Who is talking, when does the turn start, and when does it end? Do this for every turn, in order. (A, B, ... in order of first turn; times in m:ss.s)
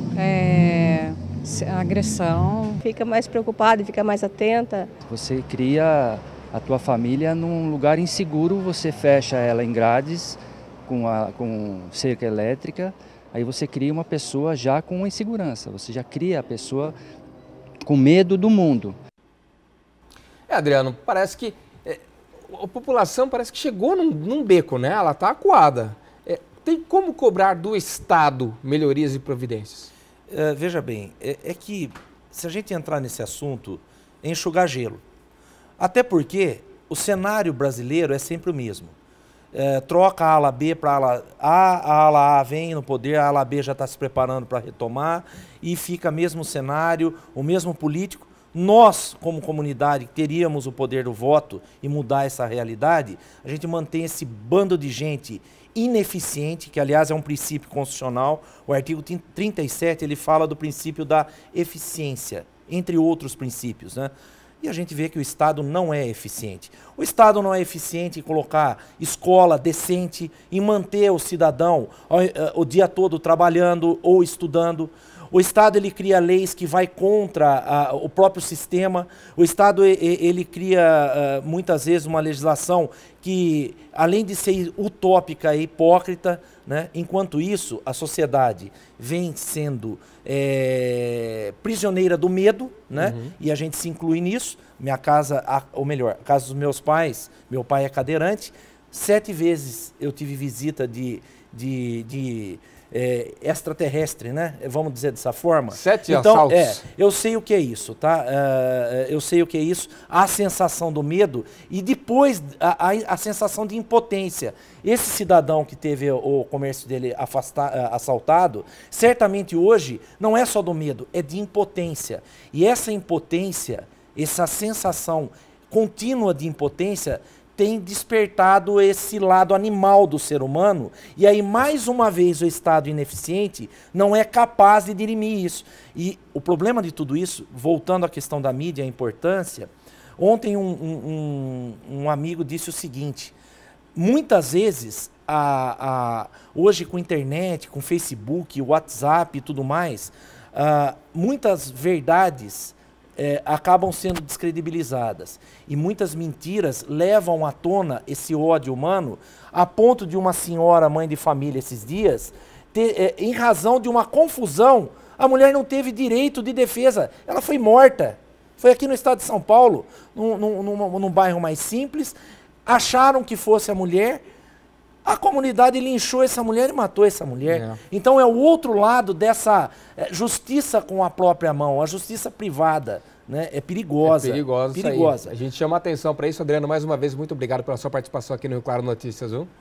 0:00.2-0:02.8 A
0:02.9-0:04.9 B
0:05.0-0:17.0 C
0:17.8-0:19.0 C
0:20.5-0:29.9 D
0:30.3-0:35.0 E
0:35.8-0:38.9 E
0:39.5-2:23.4 E
1:33.0-1:33.3 D
1:45.7-1:46.8 D
2:24.0-2:54.2 E
2:55.0-3:05.3 E
2:57.5-2:57.8 D
3:04.0-3:09.5 D